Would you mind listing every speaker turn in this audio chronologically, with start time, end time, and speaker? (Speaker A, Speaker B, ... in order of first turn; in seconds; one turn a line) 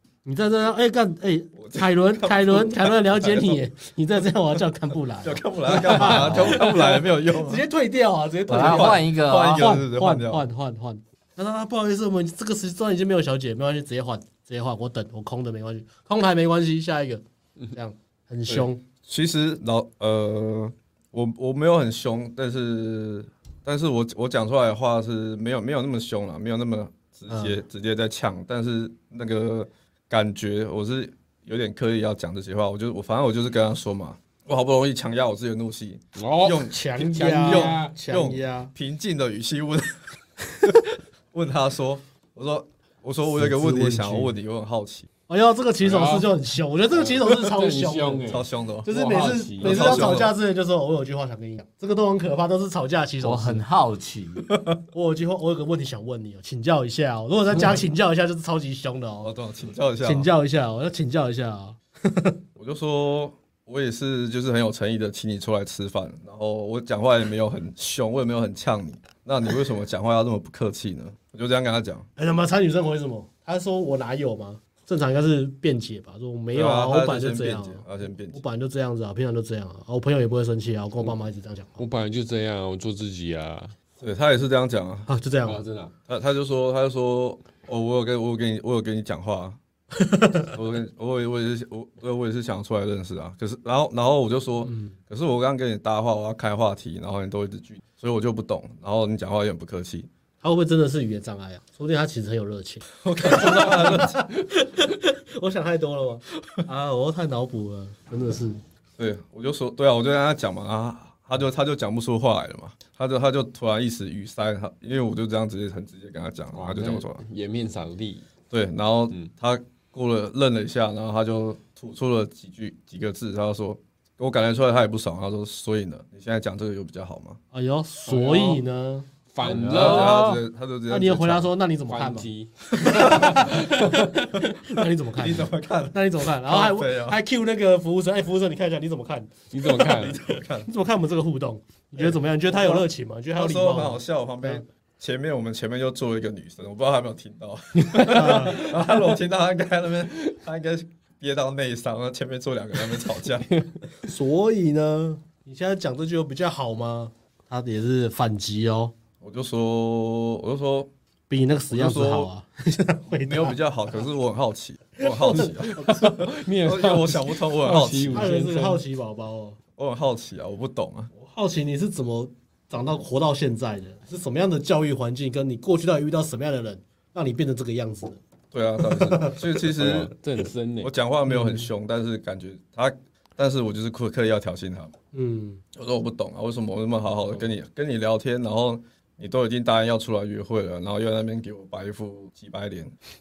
Speaker A: 0.2-18.8
Speaker B: 1.6-3.6
Speaker B: 5.2-7.6
Speaker C: 6.2-6.6
Speaker C: 8.5-9.7
Speaker B: 8.5-10.4
Speaker B: 18.5-40.0
Speaker A: 27.3-27.6
Speaker D: 36.2-37.9
Speaker A: 36.7-38.7
Speaker B: 40.6-45.1
Speaker A: 43.3-44.3
Speaker A: 45.3-53.6
Speaker D: 45.8-46.3
Speaker D: 46.9-50.2
Speaker B: 48.2-48.9
Speaker B: 49.6-50.3
Speaker C: 53.2-54.5
Speaker A: 54.9-59.3
Speaker B: 59.2-60.3
Speaker A: 60.0-62.4
Speaker B: 62.5-72.1
Speaker A: 72.2-81.8
Speaker B: 76.5-78.4
Speaker D: 81.8-83.7
Speaker B: 84.0-85.1
Speaker A: 85.1-85.6
Speaker D: 85.4-85.9
Speaker B: 86.1-89.6
Speaker A: 90.0-90.5
Speaker B: 90.5-100.1
Speaker A: 94.6-95.0
Speaker A: 100.4-108.6
Speaker B: 103.0-104.2
Speaker B: 109.0-117.2
Speaker D: 116.5-118.2
Speaker B: 118.5-127.4
Speaker A: 127.5-130.2
Speaker D: 128.1-128.6
Speaker D: 129.3-130.4
Speaker B: 129.4-131.5
Speaker A: 130.9-139.3
Speaker D: 131.9-133.9
Speaker B: 132.8-133.9
Speaker B: 135.2-137.2
Speaker D: 139.5-140.2
Speaker B: 139.8-140.7
Speaker A: 140.6-144.6
Speaker B: 142.0-142.8
Speaker B: 143.3-153.5
Speaker D: 147.8-148.6
Speaker A: 148.1-148.6
Speaker A: 154.0-158.9
Speaker B: 159.2-160.9
Speaker A: 161.3-163.6
Speaker B: 161.7-162.3
Speaker B: 163.2-168.3
Speaker A: 165.0-166.2
Speaker D: 165.3-168.8
Speaker A: 168.1-169.6
Speaker B: 169.8-171.1
Speaker A: 171.2-178.2
Speaker B: 178.5-180.1
Speaker A: 178.8-179.4
Speaker D: 179.7-180.9
Speaker B: 180.8-184.9
Speaker A: 181.3-181.7
Speaker A: 185.1-185.6
Speaker B: 185.7-192.9